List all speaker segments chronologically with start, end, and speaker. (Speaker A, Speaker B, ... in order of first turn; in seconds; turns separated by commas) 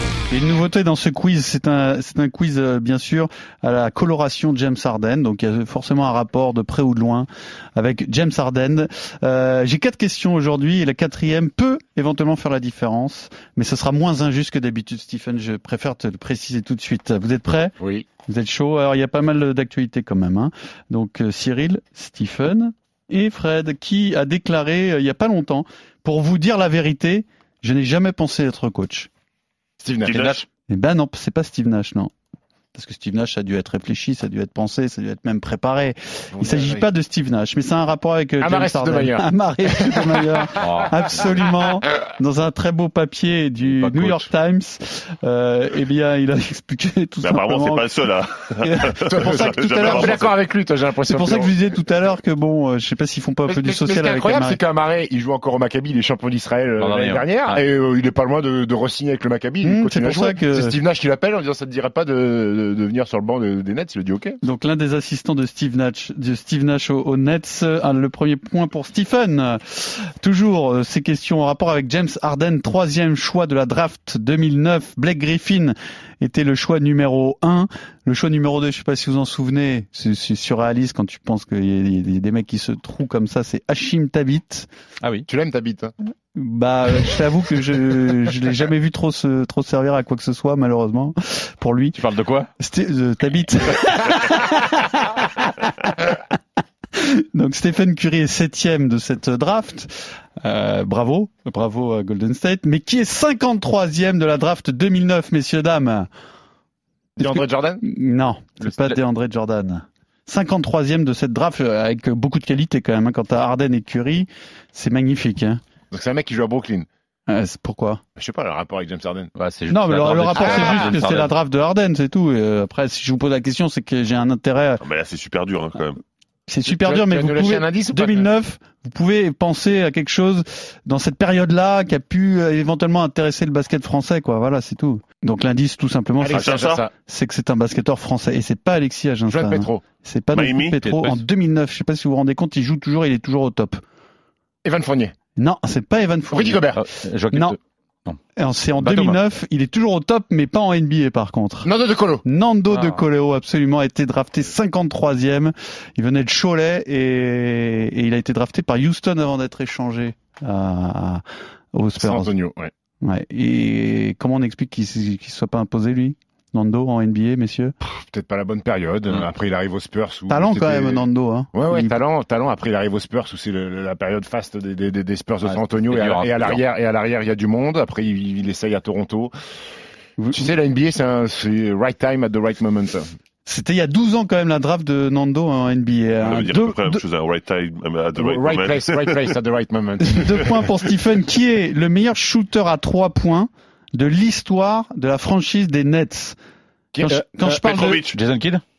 Speaker A: 0.3-29.1, Speaker B: 17.8-18.1, Speaker B: 29.8-30.4, Speaker C: 30.1-30.4, Speaker D: 30.1-30.4, Speaker A: 30.7-32.1, Speaker A: 32.7-47.9, Speaker B: 36.3-36.9, Speaker B: 38.4-40.7, Speaker D: 40.6-41.2, Speaker D: 43.6-44.3, Speaker C: 47.2-50.3, Speaker A: 48.6-50.3, Speaker B: 49.0-51.5, Speaker A: 51.1-54.6, Speaker B: 53.4-64.4, Speaker D: 56.8-57.6, Speaker A: 59.6-60.8, Speaker A: 64.4-84.7, Speaker D: 85.0-85.3, Speaker B: 85.3-85.9, Speaker A: 86.3-92.0, Speaker D: 91.9-92.5, Speaker A: 92.6-96.2, Speaker A: 96.9-106.1, Speaker B: 107.2-107.8, Speaker A: 107.2-115.6, Speaker D: 108.6-109.0, Speaker B: 115.9-116.9, Speaker A: 117.3-118.0, Speaker B: 118.2-119.3, Speaker D: 119.4-121.3, Speaker A: 119.7-124.8, Speaker B: 120.4-121.0, Speaker C: 124.8-126.0, Speaker A: 126.5-143.8, Speaker B: 126.7-128.3, Speaker B: 136.2-136.9, Speaker C: 136.3-136.8, Speaker B: 139.3-139.8, Speaker C: 140.3-140.8, Speaker B: 144.6-145.1, Speaker A: 145.4-146.6, Speaker B: 146.3-146.8, Speaker D: 146.8-148.2, Speaker A: 148.4-151.7, Speaker D: 148.8-149.2, Speaker B: 151.6-152.2, Speaker A: 152.2-162.3, Speaker D: 152.7-153.1, Speaker B: 162.0-162.7, Speaker A: 163.0-167.7, Speaker B: 167.8-179.3, Speaker A: 170.3-171.9, Speaker D: 175.4-176.6, Speaker A: 180.2-180.4, Speaker B: 180.3-183.1, Speaker A: 183.4-187.0, Speaker C: 186.2-189.3, Speaker B: 188.2-190.6, Speaker A: 190.0-196.4, Speaker B: 196.9-197.6, Speaker A: 197.0-198.0, Speaker C: 197.5-198.2, Speaker D: 198.1-198.6